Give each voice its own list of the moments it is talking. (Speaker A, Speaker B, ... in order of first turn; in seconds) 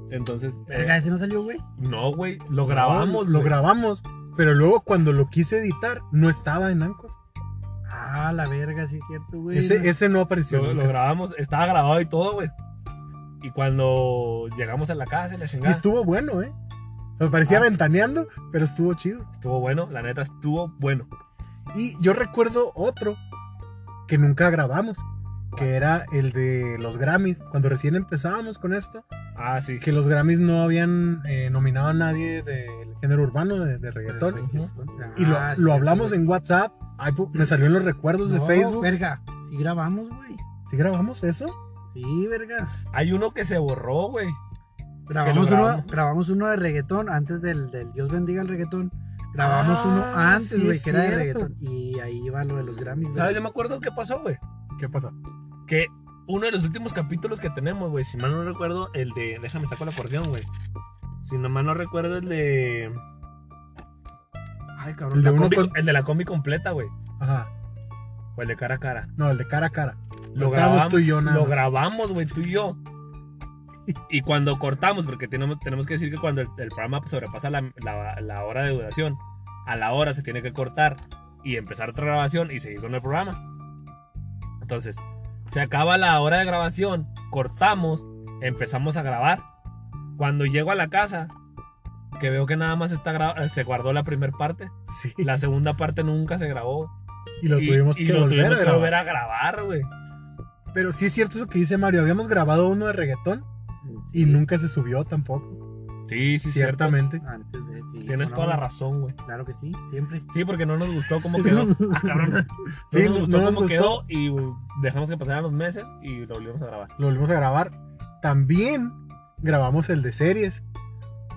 Speaker A: 0.1-1.0, 1.8-3.6, 10.5-12.5, 13.4-15.8, 19.4-21.1, 29.4-29.9, 34.3-34.7, 42.9-44.4, 45.2-45.9, 53.1-54.4, 55.7-60.5, 61.2-63.0, 64.8-66.9, 68.3-69.1, 70.3-72.8, 74.1-83.4, 84.6-89.5, 90.2-91.3, 92.2-96.9, 97.5-99.9, 106.1-107.0, 108.1-109.2, 110.3-116.9
Speaker B: 0.7-1.6, 7.9-9.9, 34.1-36.2, 38.2-40.4, 41.9-42.7, 45.1-53.4, 103.8-104.4, 107.2-108.6, 109.2-110.3, 111.3-112.4
Speaker C: 2.6-7.1, 9.5-10.9, 15.6-16.5, 17.2-19.3, 21.7-23.2, 24.1-29.1, 29.8-34.4, 35.1-38.9, 40.6-41.6, 49.4-51.5, 54.8-55.1, 65.1-65.8, 67.2-67.5, 69.2-71.7, 94.9-95.3, 97.4-99.0, 100.7-103.5, 104.1-105.6, 106.4-107.2, 112.9-114.0, 117.0-120.6